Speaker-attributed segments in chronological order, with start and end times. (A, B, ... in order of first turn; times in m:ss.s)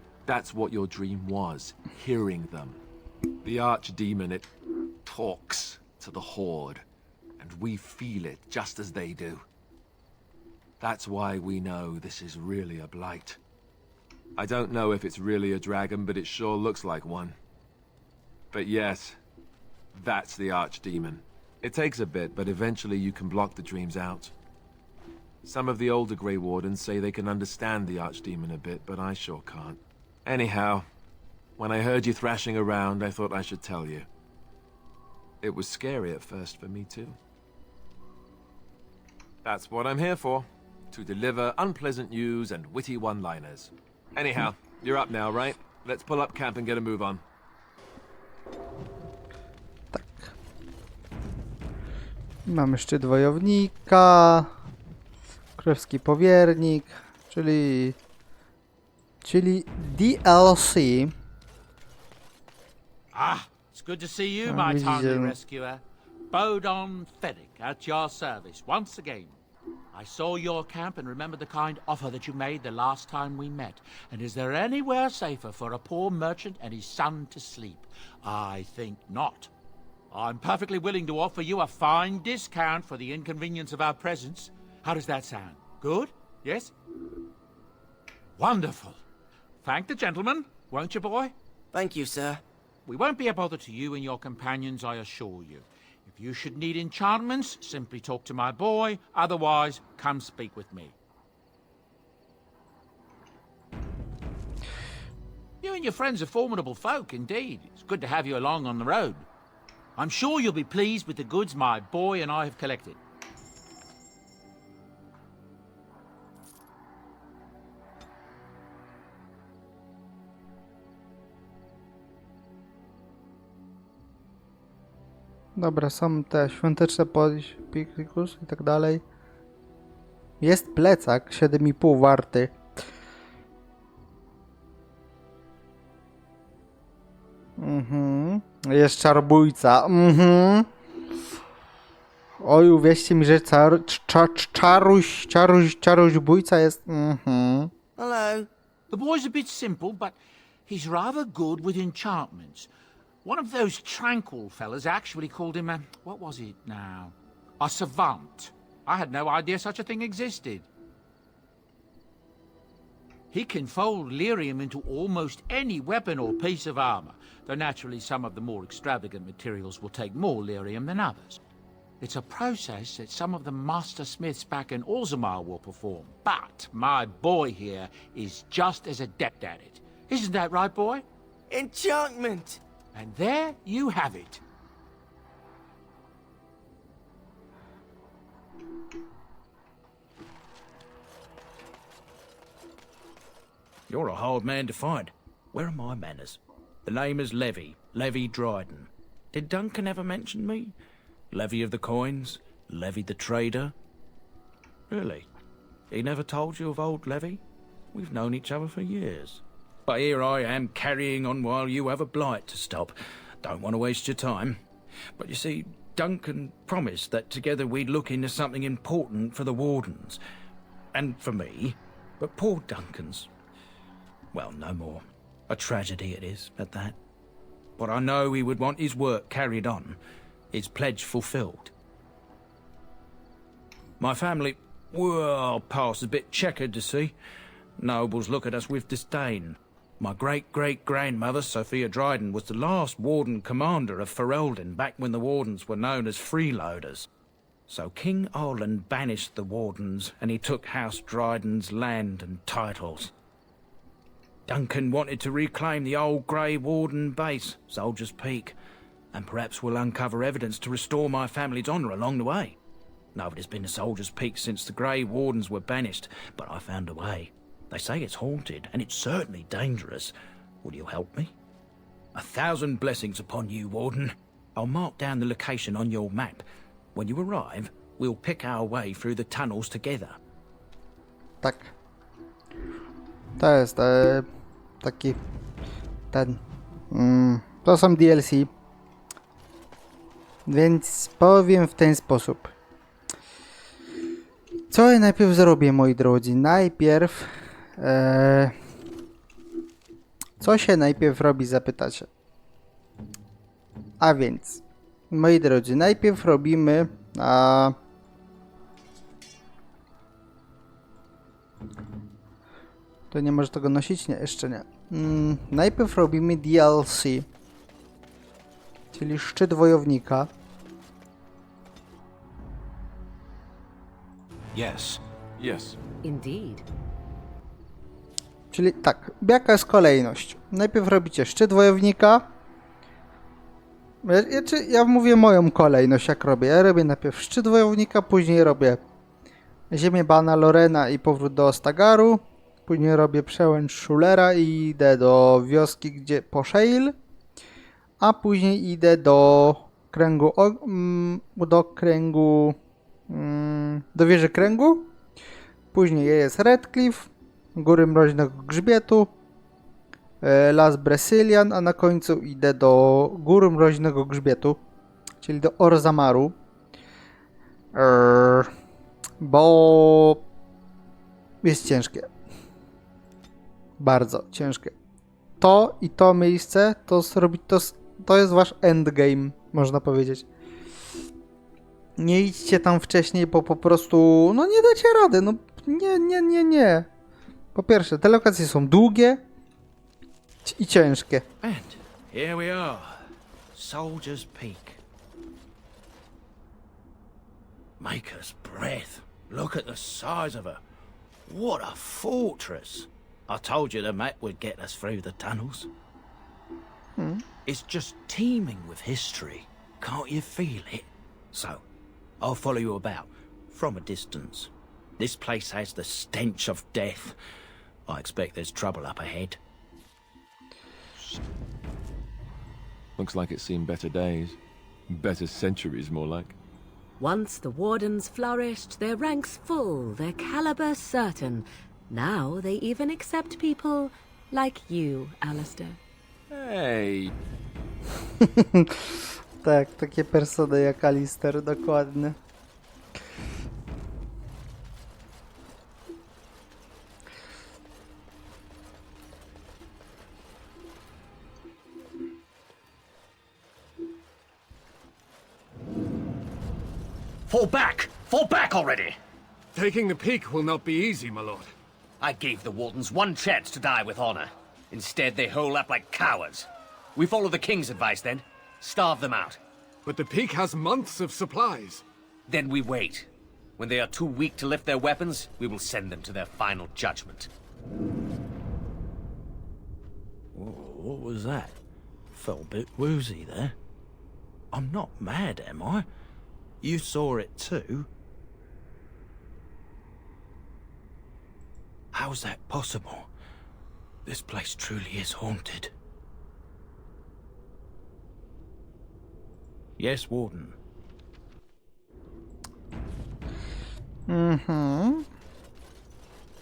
0:00.2-0:02.8 A
0:03.4-0:04.5 A
0:05.0-0:06.8 A
0:07.4-0:09.4 A
0:10.8-0:13.4 A
0:14.4-0:17.4 A
0:18.5-0:19.2 A
0:19.9-0:24.3 A
0:25.4-0:30.9 A
0:31.6-0:34.1 A
0:35.4-0:37.2 A
0:39.4-0:47.2 A
0:49.9-0:50.3 B
0:52.4-0:54.5 B
0:55.6-0:58.0 B
0:59.2-1:01.1 B
1:03.1-1:09.4 C
1:04.5-1:05.4 B
1:09.9-1:19.5 C
1:20.1-1:26.7 C
1:28.4-1:29.0 C
1:29.6-1:31.3 C
1:31.7-1:32.4 D
1:32.9-1:40.9 C
1:45.6-1:49.2 C
1:50.0-1:53.0 C
2:05.6-2:09.0 B
2:10.4-2:12.5 B
2:17.6-2:20.7 B
2:22.4-2:27.7 B
2:28.0-2:28.5 D
2:28.9-2:32.7 C
2:33.2-2:40.6 C
2:43.3-2:51.4 C
2:52.0-3:01.0 C
3:01.5-3:02.6 D
3:02.9-3:04.4 C
3:13.9-3:20.7 E
3:21.3-3:23.7 E
3:24.9-3:25.3 E
3:25.9-3:27.4 E
3:27.9-3:34.6 E
3:35.2-3:40.2 E
3:40.9-3:43.3 E
3:44.3-3:47.0 E
3:47.8-3:50.0 E
3:50.5-3:51.7 E
3:54.0-3:57.1 E
3:57.8-4:07.1 E
4:07.7-4:13.1 E
4:14.5-4:18.6 E
4:19.1-4:22.6 E
4:23.1-4:31.3 E
4:32.1-4:40.2 E
4:41.4-4:41.7 B
4:43.4-4:44.2 B
4:44.8-4:45.2 B
4:46.1-4:46.4 B
4:46.9-4:48.5 B
4:50.5-4:52.5 B
4:54.7-4:58.6 B
5:00.4-5:02.1 B
5:04.0-5:07.7 B
5:13.1-5:17.3 B
5:18.9-5:20.3 B
5:24.6-5:24.8 A
5:25.4-5:25.8 A
5:26.0-5:26.6 F
5:28.5-5:32.3 B
5:34.0-5:38.8 B
5:39.7-5:46.9 B
5:48.0-5:52.6 B
5:53.1-5:54.9 B
5:55.7-5:59.1 B
6:00.2-6:04.6 B
6:05.2-6:06.4 B
6:07.7-6:08.5 B
6:09.2-6:10.2 B
6:11.4-6:12.1 B
6:13.8-6:14.7 B
6:15.4-6:20.2 B
6:22.0-6:26.9 B
6:27.6-6:29.2 B
6:30.4-6:31.2 B
6:31.4-6:34.8 E
6:37.8-6:40.6 E
6:41.2-6:45.7 E
6:47.0-6:47.2 B
6:47.4-6:51.6 E
6:52.2-6:57.2 E
6:57.9-6:59.4 E
7:03.0-7:06.4 A
7:07.0-7:15.8 F
7:16.3-7:17.1 A
7:18.2-7:18.8 B
7:19.4-7:22.2 B
7:37.3-7:39.0 G
7:39.5-7:41.5 H
7:42.0-7:49.4 G
7:49.8-7:51.8 H
7:52.3-7:57.3 G
8:00.3-8:01.6 E
8:02.1-8:03.6 E
8:04.5-8:05.9 E
8:06.6-8:07.9 E
8:11.9-8:13.1 E
8:14.1-8:15.7 E
8:19.8-8:20.6 E
8:24.1-8:25.1 B